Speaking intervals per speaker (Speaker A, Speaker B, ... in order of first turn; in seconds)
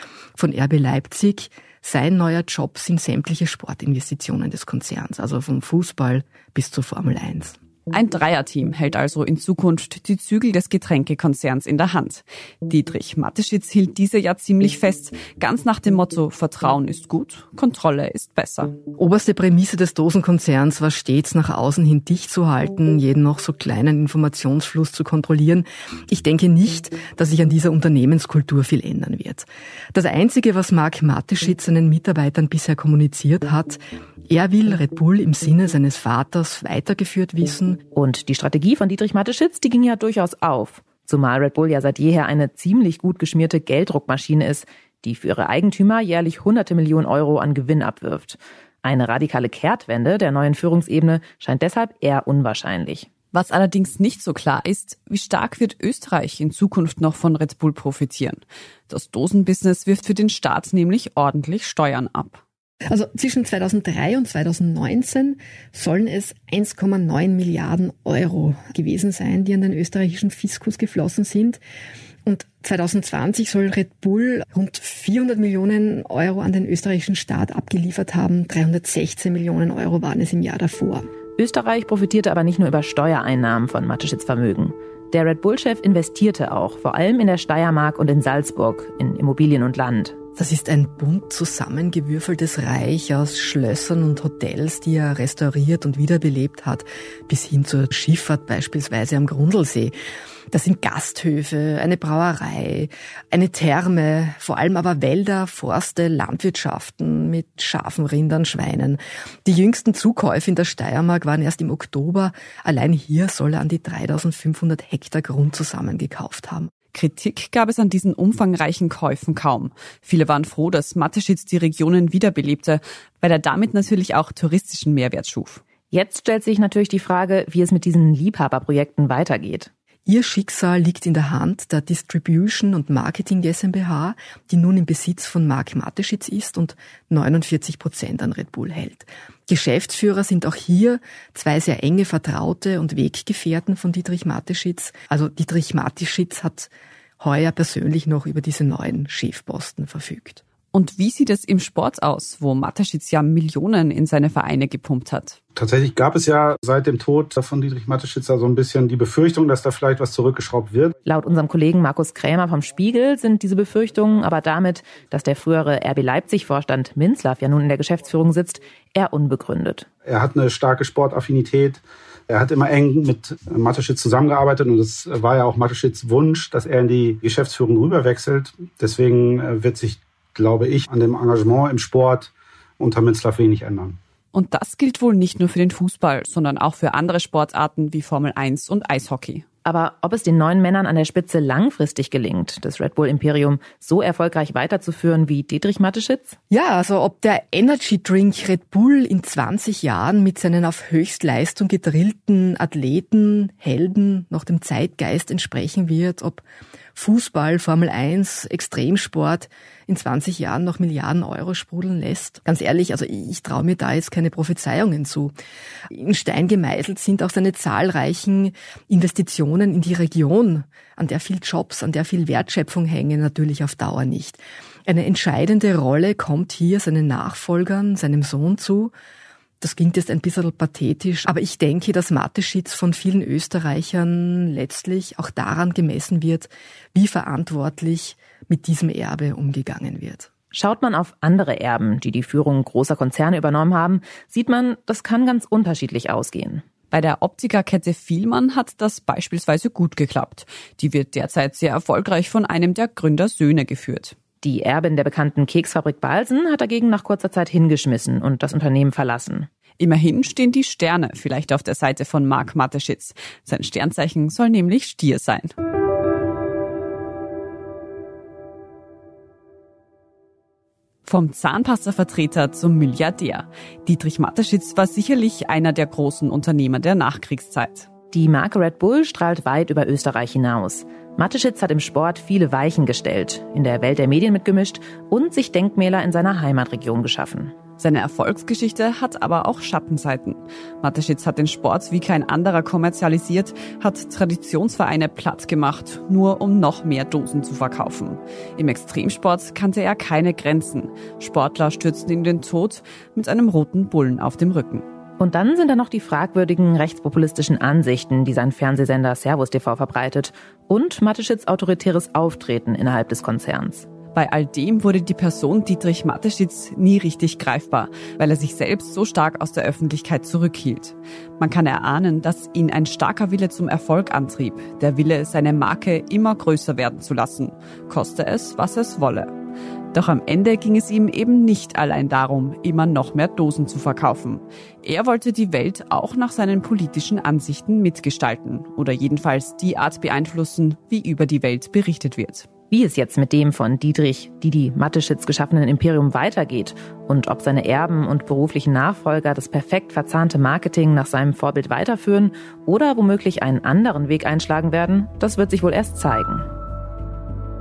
Speaker A: 0.3-7.6, 18.9-37.8, 62.9-71.6, 72.2-81.1, 90.3-99.9, 100.5-116.7, 130.1-150.4, 196.5-206.4, 206.9-215.3, 215.9-228.9, 229.6-240.3
Speaker B: 7.9-18.8, 53.3-62.4, 116.9-125.6, 150.7-155.4, 184.3-189.4, 246.9-254.1, 259.8-265.5, 271.1-277.9, 287.8-304.8, 314.1-329.3, 329.9-342.5
Speaker C: 37.9-53.1, 81.4-90.2, 125.9-129.7, 161.1-169.9, 189.6-196.4, 240.5-246.6, 254.4-259.5, 278.1-287.5, 305.2-313.9, 342.7-356.5
Speaker D: 155.6-160.9, 170.1-184.0